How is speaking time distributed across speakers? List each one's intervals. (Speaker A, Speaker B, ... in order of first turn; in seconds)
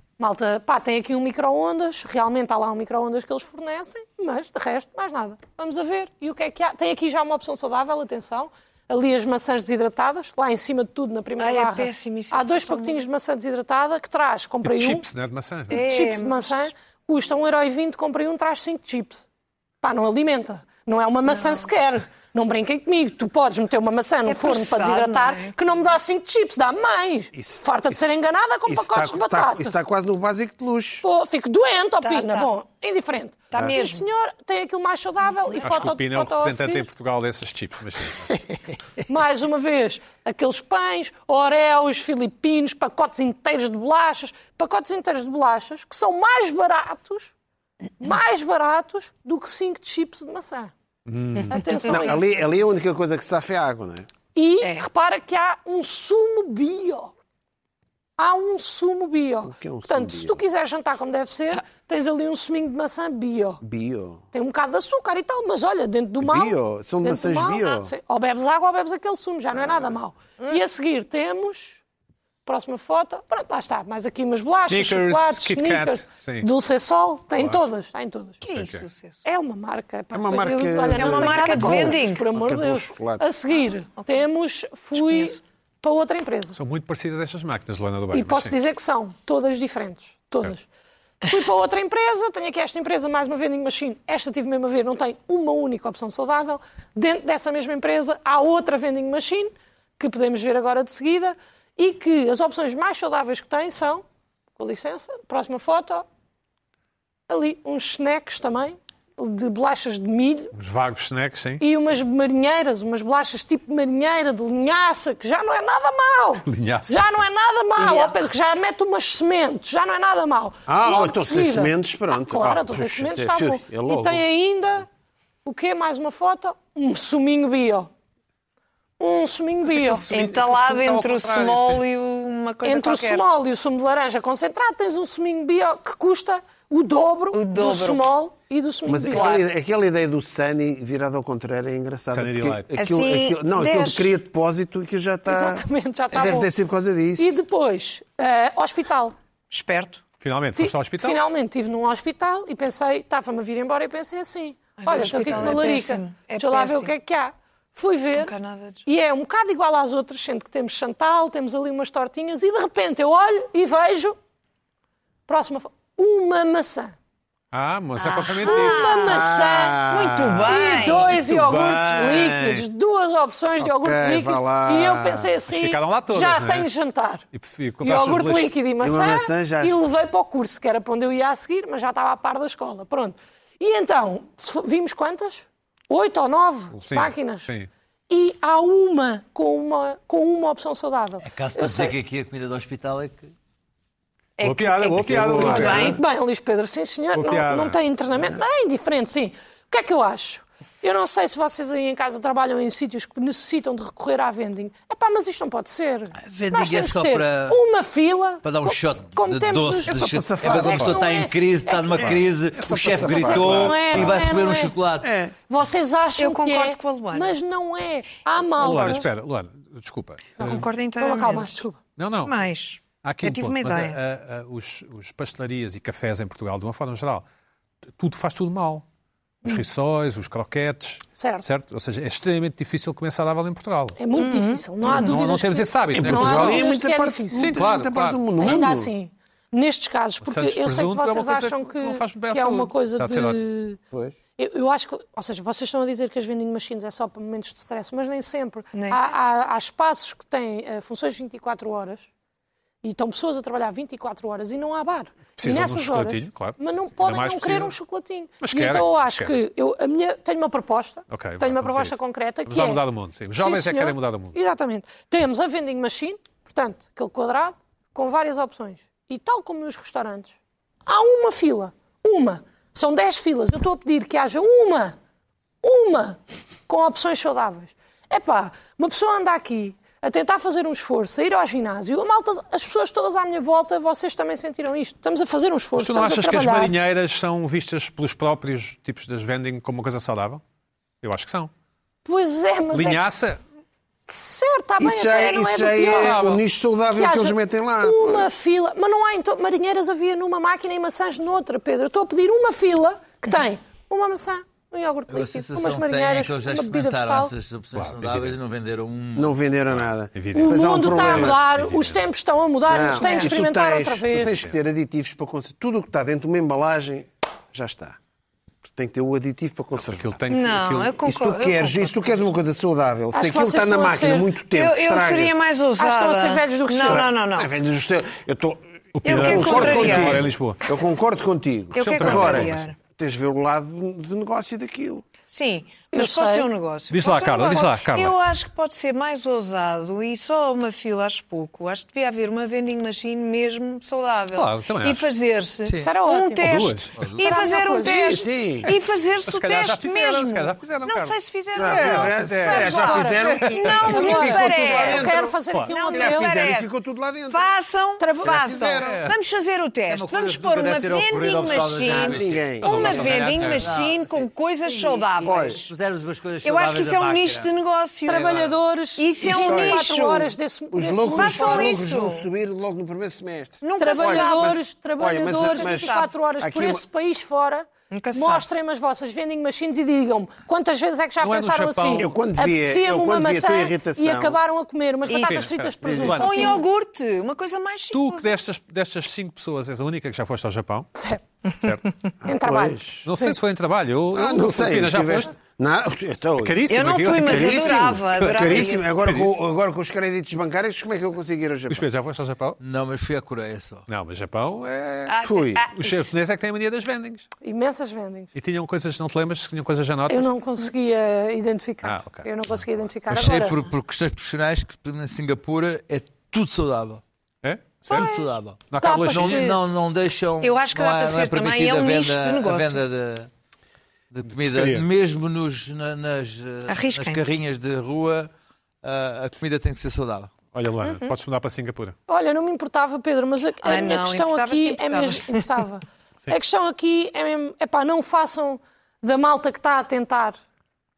Speaker A: 0.2-15.0, 15.7-19.2, 19.8-29.7, 31.0-36.9, 39.1-47.3, 48.0-50.7, 51.5-52.2, 54.3-57.1, 58.2-63.6, 64.3-71.8, 72.5-78.4, 79.2-86.6, 88.1-90.7, 91.2-104.0, 104.5-106.0, 107.3-110.5, 111.6-124.9, 125.4-127.9, 129.0-130.1, 132.6-139.4, 145.3-146.5, 147.2-149.1, 150.6-158.3, 158.8-164.2, 165.3-166.9, 168.4-169.9, 170.4-177.2, 177.8-187.5, 188.1-191.9, 195.1-212.2, 212.9-214.8, 215.5-219.1, 220.4-221.8, 231.2-231.5, 234.0-237.6, 238.4-243.8, 244.3-252.1, 252.8-262.8, 263.4-274.9, 275.6-286.7, 292.0-293.0, 294.1-296.2, 296.9-307.3, 310.3-314.4, 323.1-324.3, 325.8-327.1, 335.9-336.5, 345.8-348.2, 352.4-356.5, 358.0-358.6, 368.1-371.8, 373.8-386.6, 390.9-391.2, 392.2-393.4, 407.4-408.3, 410.1-413.6, 418.8-419.6, 432.1-440.4
Speaker B: 11.4-13.0, 15.7-16.6, 21.3-21.7, 24.2-25.5, 32.0-32.5, 33.5-34.1, 35.4-35.8, 54.6-54.9, 78.4-79.2, 80.9-82.2, 84.9-85.4, 117.8-118.2, 130.1-133.2, 137.3-138.0, 139.0-139.4, 142.7-144.1, 149.5-150.0, 154.8-156.9, 158.2-158.8, 168.0-169.3, 169.9-171.2, 194.4-196.0, 216.2-217.4, 220.4-221.6, 222.2-224.0, 234.2-234.6, 248.7-249.1, 312.9-313.3, 320.3-322.1, 324.5-327.5, 329.0-330.3, 331.7-332.8, 335.3-356.7, 357.3-365.7, 366.4-368.4, 369.0-370.3, 371.1-372.3, 373.6-374.6, 375.2-376.1, 377.9-378.5, 385.1-388.3, 396.7-398.9, 405.1-406.1, 417.9-418.3, 420.4-422.8, 426.7-427.2, 433.6-435.6
Speaker C: 14.6-15.8, 35.6-38.4, 51.1-51.6, 74.6-76.5, 77.3-77.6, 78.4-78.8, 86.5-88.6, 110.5-111.6, 116.5-117.2, 129.6-131.8, 142.1-142.7, 150.2-151.2, 167.5-169.0, 171.1-172.7, 175.5-176.7, 177.3-178.5, 186.8-187.7, 194.4-196.0, 197.1-197.8, 210.6-210.9, 213.5-214.0, 218.6-220.6, 222.0-222.3, 223.0-227.2, 228.0-228.8, 229.4-233.9, 234.8-236.7, 237.3-238.2, 240.2-243.4, 255.4-257.7, 258.4-259.4, 261.1-264.4, 285.8-290.4, 291.0-291.5, 292.7-293.4, 295.8-296.4, 307.7-308.4, 309.7-312.0, 319.8-320.9, 329.0-330.6, 331.8-332.6, 336.9-338.1, 344.3-345.1, 346.4-346.9, 349.2-354.1, 358.8-359.1, 362.6-363.8, 381.2-382.1, 385.1-386.5, 387.9-390.9, 391.6-391.9, 393.1-395.3, 396.4-399.3, 401.7-402.6, 403.9-407.3, 408.3-410.3, 411.8-412.7, 417.4-418.1, 418.7-419.5, 424.5-424.9, 430.5-431.9
Speaker D: 27.3-28.0, 28.7-31.0, 33.5-33.8, 51.9-54.1, 59.4-60.4, 63.6-64.2, 66.2-67.9, 69.5-69.9, 80.1-83.2, 120.7-124.2, 138.9-147.4, 155.2-155.6, 169.0-170.9, 173.6-175.3, 178.8-179.8, 209.9-211.0, 212.0-214.1, 215.0-215.3, 235.9-238.9, 294.8-298.3, 309.1-311.4, 312.7-318.0, 318.7-320.2, 321.0-325.6, 326.8-335.1, 347.8-348.7, 351.5-357.5, 358.2-359.1, 361.8-363.0, 365.2-365.6, 369.2-369.9, 370.7-376.9, 382.0-384.4, 385.8-386.2, 392.2-393.1, 394.1-401.9, 405.2-405.6
Speaker E: 191.2-193.3, 206.2-207.6, 208.4-215.1, 305.1-309.4, 345.6-345.9, 347.0-347.2, 359.9-367.5, 368.1-368.6, 402.6-403.9, 413.1-417.0, 417.9-423.3, 424.1-428.3, 428.8-430.3